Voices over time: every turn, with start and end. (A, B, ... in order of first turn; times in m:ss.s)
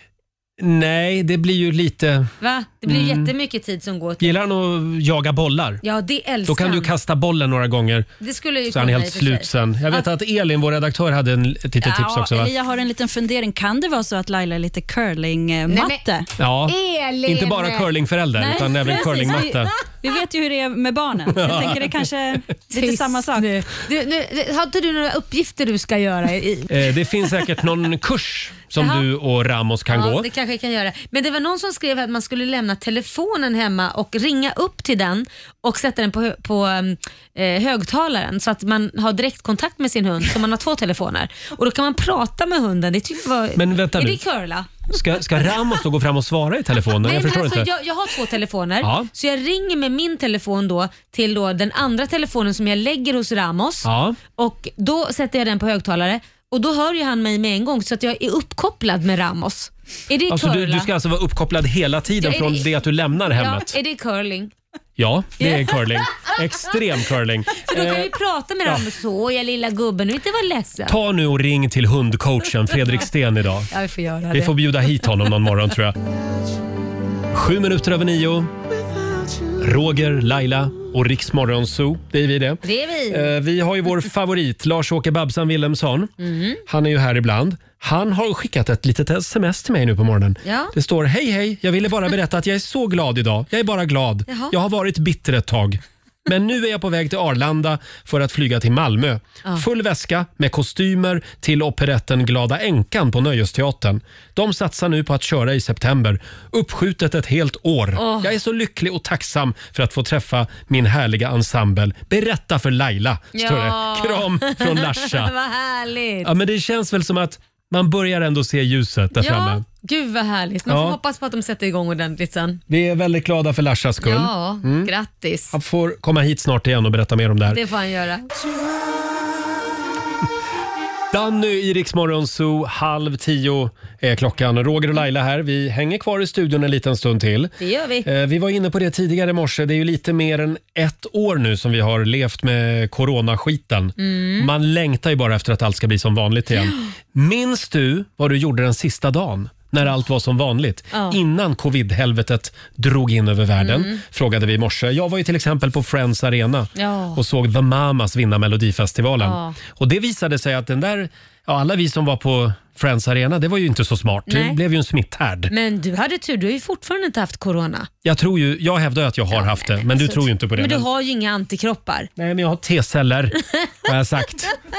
0:00.6-0:02.3 A
0:02.4-0:04.4 B
0:02.9-0:03.3 A
0:04.2-0:05.8 A
0:05.8-0:06.9 B
0:06.4-0:08.1 A
0:08.2-0:10.1 B
0:08.7-0:12.5 A
0:11.8-0:12.2 B
0:12.2-0:16.3 C
0:15.7-0:16.0 B
0:16.4-0:19.8 A
0:16.6-0:19.8 B
0:19.2-0:23.6 C
0:21.3-0:21.8 A
0:22.7-0:27.4 B
0:26.7-0:30.3 A
0:28.8-0:29.0 B
0:29.9-0:45.6 B
0:43.6-0:44.2 A
0:44.9-0:47.7 A
0:47.0-1:00.9 B
0:48.8-0:49.1 A
0:53.8-0:54.2 A
1:00.3-1:03.8 A
1:02.2-1:02.7 B
1:03.2-1:04.5 B
1:05.0-1:08.1 A
1:05.4-1:06.3 B
1:07.7-1:11.0 B
1:10.9-1:13.7 A
1:13.7-1:14.5 B
1:14.3-1:16.0 A
1:17.3-1:18.5 A
1:19.5-1:26.1 A
1:22.6-1:23.3 B
1:26.2-1:26.6 B
1:26.7-1:55.3 A
1:30.4-1:30.7 B
1:34.3-1:34.5 B
1:48.0-1:48.3 B
1:53.3-1:56.3 B
1:56.2-1:59.6 A
1:59.2-2:02.6 B
2:00.7-2:01.0 A
2:02.7-2:04.9 A
2:04.0-2:05.6 B
2:05.5-2:07.6 A
2:07.5-2:08.3 B
2:11.1-2:17.5 A
2:17.6-2:18.1 B
2:18.0-2:45.5 A
2:24.0-2:24.5 B
2:26.6-2:26.9 B
2:30.9-2:31.2 B
2:33.6-2:34.0 B
2:36.8-2:37.2 B
2:39.2-2:39.6 B
2:44.3-2:44.6 B
2:45.5-2:47.9 B
2:48.0-2:50.9 A
2:49.3-2:52.1 B
2:52.2-2:54.5 A